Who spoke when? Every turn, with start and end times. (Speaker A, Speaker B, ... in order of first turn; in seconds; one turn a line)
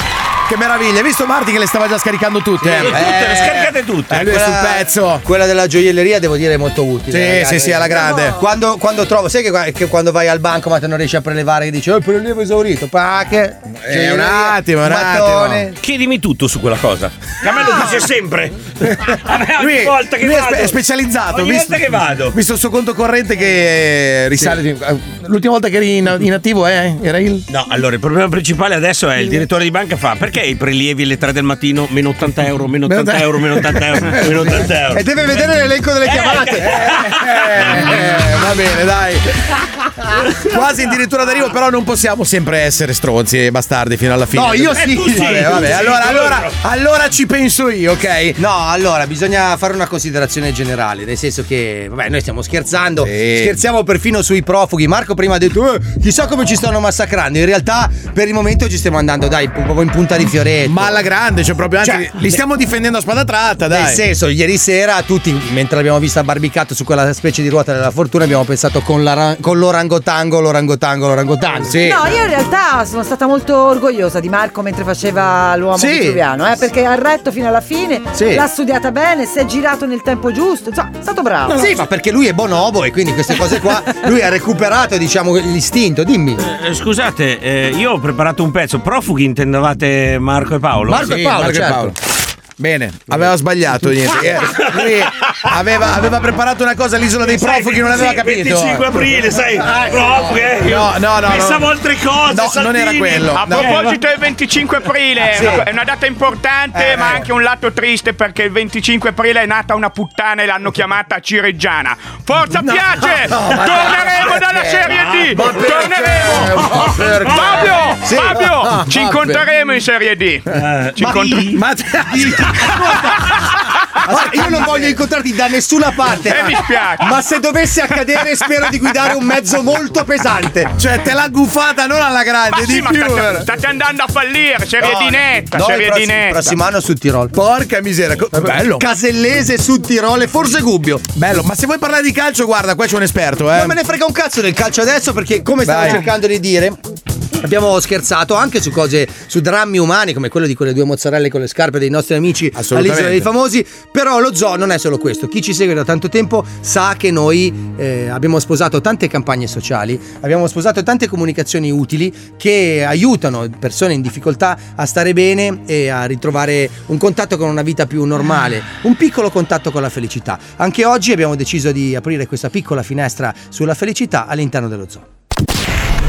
Speaker A: 0.5-5.2
Speaker B: 2.6-4.2
Speaker C: 4.1-15.7
Speaker A: 7.1-8.4
Speaker D: 8.0-8.3
Speaker A: 13.8-15.7
Speaker B: 15.8-20.8
Speaker A: 18.9-27.4
Speaker B: 21.3-22.4
Speaker B: 27.5-35.0
Speaker A: 32.9-34.7
Speaker C: 34.9-37.0
Speaker B: 36.0-38.0
Speaker A: 36.6-39.3
Speaker C: 37.7-38.1
Speaker A: 40.2-48.4
Speaker C: 44.3-46.0
Speaker B: 44.7-46.6
Speaker C: 48.4-61.0
Speaker A: 53.0-53.6
Speaker A: 60.6-64.0
Speaker C: 61.8-62.4
Speaker C: 63.7-71.9
Speaker A: 71.7-72.0
Speaker D: 71.8-81.7
Speaker C: 75.7-76.2
Speaker C: 78.1-78.4
Speaker C: 81.5-86.4
Speaker B: 86.4-91.1
Speaker C: 90.9-91.9
Speaker A: 90.9-92.0
Speaker A: 92.6-99.1
Speaker B: 94.6-95.3
Speaker B: 97.2-103.9
Speaker A: 99.8-101.7
Speaker A: 102.3-103.7
Speaker E: 103.3-116.7
Speaker A: 106.7-107.2
Speaker A: 112.6-114.8
Speaker B: 114.9-117.9
Speaker A: 115.3-117.3
Speaker E: 117.3-121.5
Speaker A: 118.0-119.4
Speaker B: 120.6-121.6
Speaker A: 121.5-122.9
Speaker C: 122.2-123.1
Speaker C: 124.1-130.7
Speaker A: 124.1-124.9
Speaker E: 126.2-127.2
Speaker A: 130.8-133.5
Speaker E: 132.5-136.5
Speaker C: 134.8-137.3
Speaker A: 137.3-138.8
Speaker C: 138.3-141.0
Speaker A: 141.1-143.8
Speaker C: 143.5-146.8
Speaker A: 145.6-146.1
Speaker C: 147.4-175.1
Speaker A: 152.6-153.3